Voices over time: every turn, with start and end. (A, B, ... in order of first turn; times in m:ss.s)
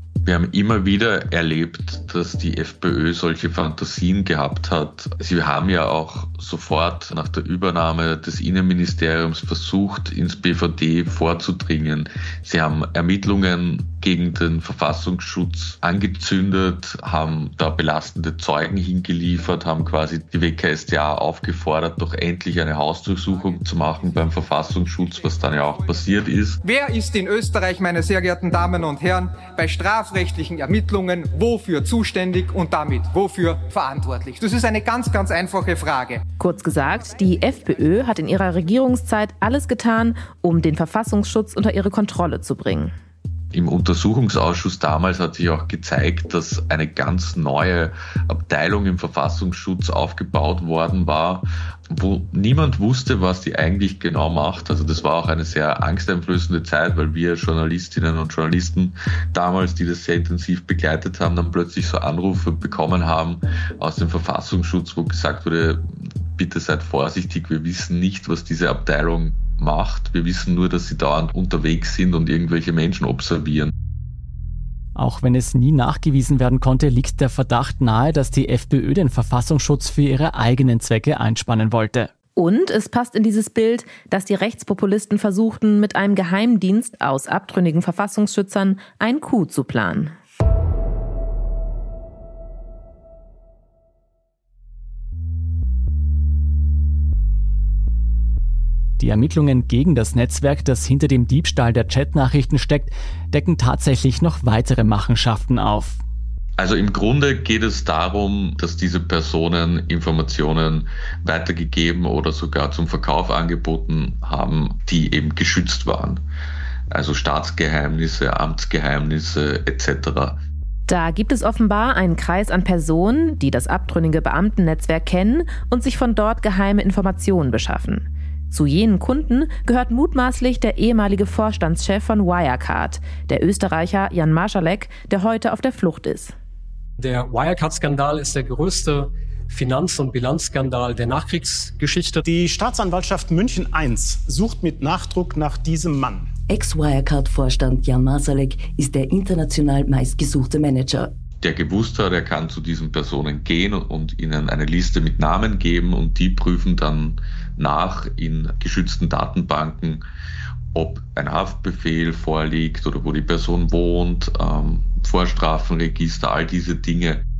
0:00.2-0:26.6 A
0:26.6-0:36.2 B
0:36.4-0:42.9 C
0:43.5-1:05.8 A
1:06.4-1:13.7 A
1:15.0-1:22.1 D
1:22.4-1:30.1 C
1:39.0-1:46.0 D
1:46.6-1:56.2 A
1:56.9-2:00.4 A
2:00.9-2:16.3 C
2:17.0-2:22.2 E
2:22.2-2:26.3 F
2:26.5-2:31.1 G
2:31.4-2:40.0 A
2:40.7-2:47.2 A